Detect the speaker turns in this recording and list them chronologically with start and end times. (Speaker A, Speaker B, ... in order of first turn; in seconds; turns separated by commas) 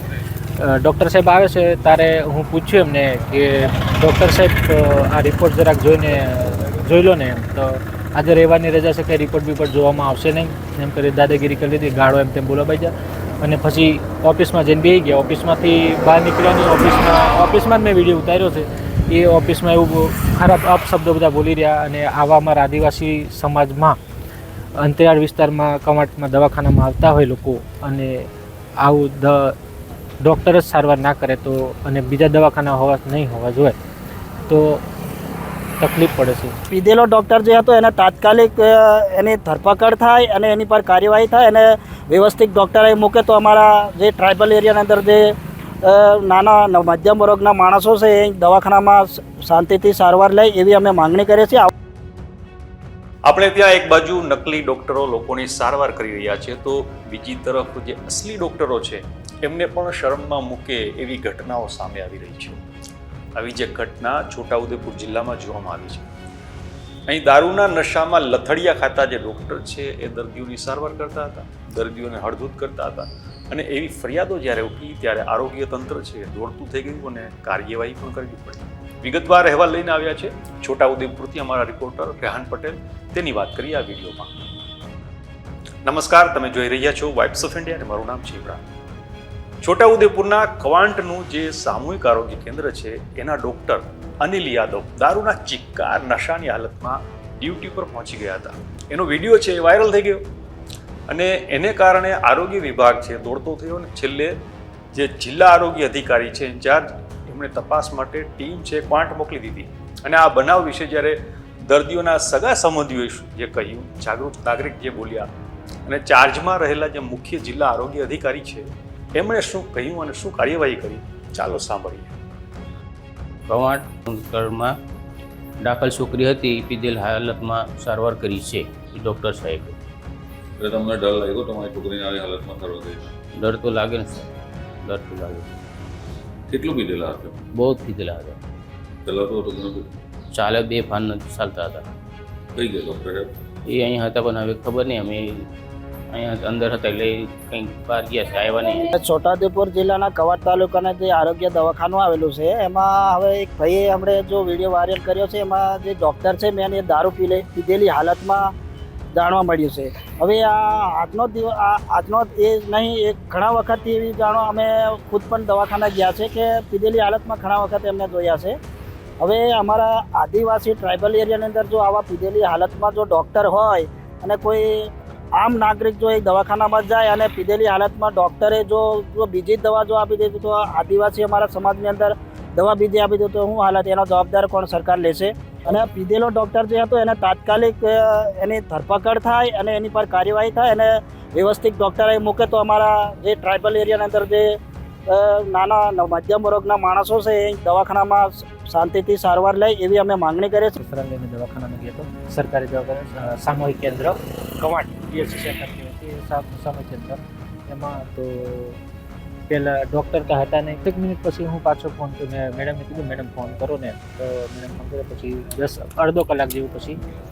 Speaker A: 0.6-24.0, Speaker A: 24.8-28.3, Speaker A: 28.8-29.5, Speaker A: 30.2-33.7, Speaker A: 34.5-34.8, Speaker A: 35.8-36.5, Speaker B: 36.7-45.3, Speaker B: 45.8-51.7, Speaker C: 53.3-62.6, Speaker C: 63.3-66.0, Speaker C: 67.1-84.3, Speaker C: 85.8-88.6, Speaker C: 89.6-100.2, Speaker C: 101.1-104.3, Speaker C: 104.9-115.3, Speaker C: 115.8-122.1, Speaker D: 123.5-124.8, Speaker D: 125.6-129.8, Speaker E: 130.6-133.1, Speaker D: 133.4-134.3, Speaker D: 134.8-135.5, Speaker E: 136.5-137.4, Speaker D: 137.5-138.4, Speaker E: 139.0-139.9, Speaker D: 140.3-141.8, Speaker E: 142.5-143.3, Speaker D: 143.7-145.5, Speaker D: 146.1-148.9, Speaker B: 148.9-158.5, Speaker B: 159.1-168.6, Speaker B: 169.2-194.5, Speaker B: 195.1-200.8, Speaker A: 200.8-208.8, Speaker A: 209.5-217.0